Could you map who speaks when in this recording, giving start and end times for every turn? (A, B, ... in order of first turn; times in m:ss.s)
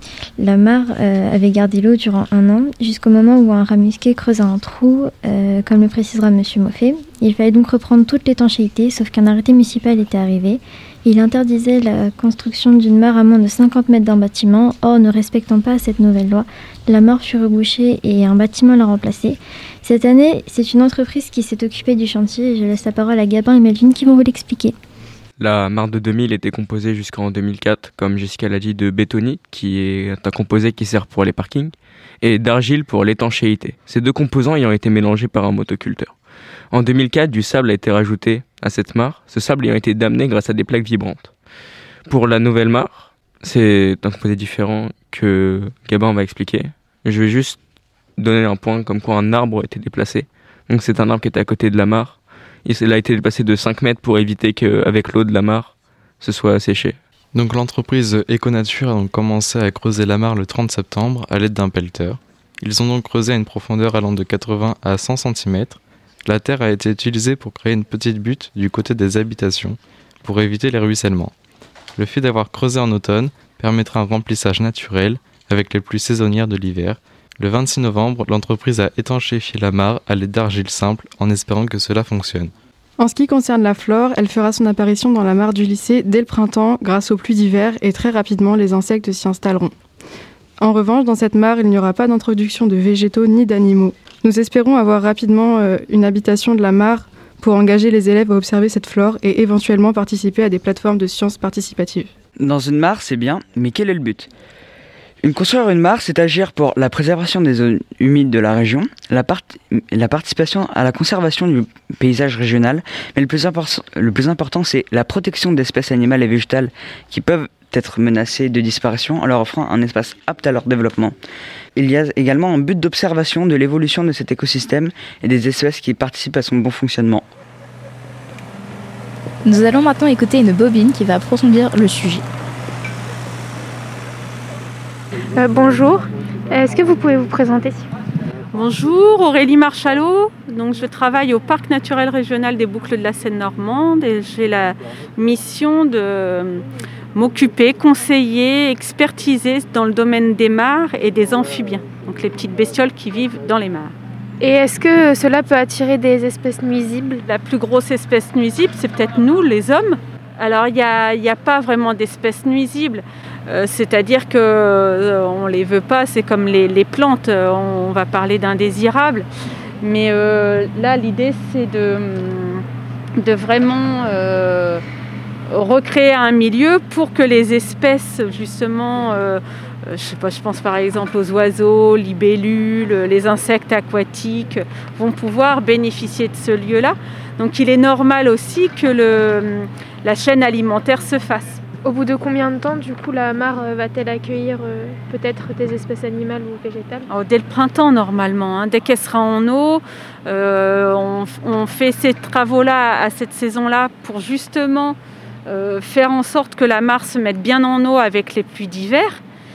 0:00.4-0:24.7 A
0:25.4-0:36.2 B
0:36.7-0:41.3 B
0:42.1-0:47.6 B
0:48.2-0:57.0 B
0:57.3-1:11.3 C
1:12.0-1:22.5 C
1:23.0-1:29.7 D
1:30.6-1:42.1 D
1:42.4-1:44.3 E
1:45.2-2:01.1 E
2:01.8-2:07.2 E
2:09.4-2:12.2 F
2:15.4-2:17.8 G
2:18.5-2:26.6 H
2:27.1-2:33.9 H
2:34.4-2:37.2 G
2:37.2-2:49.3 H
2:49.8-2:52.6 H
2:53.2-2:54.8 H
2:55.5-3:11.6 H
3:11.9-3:17.0 G
3:17.1-3:29.2 H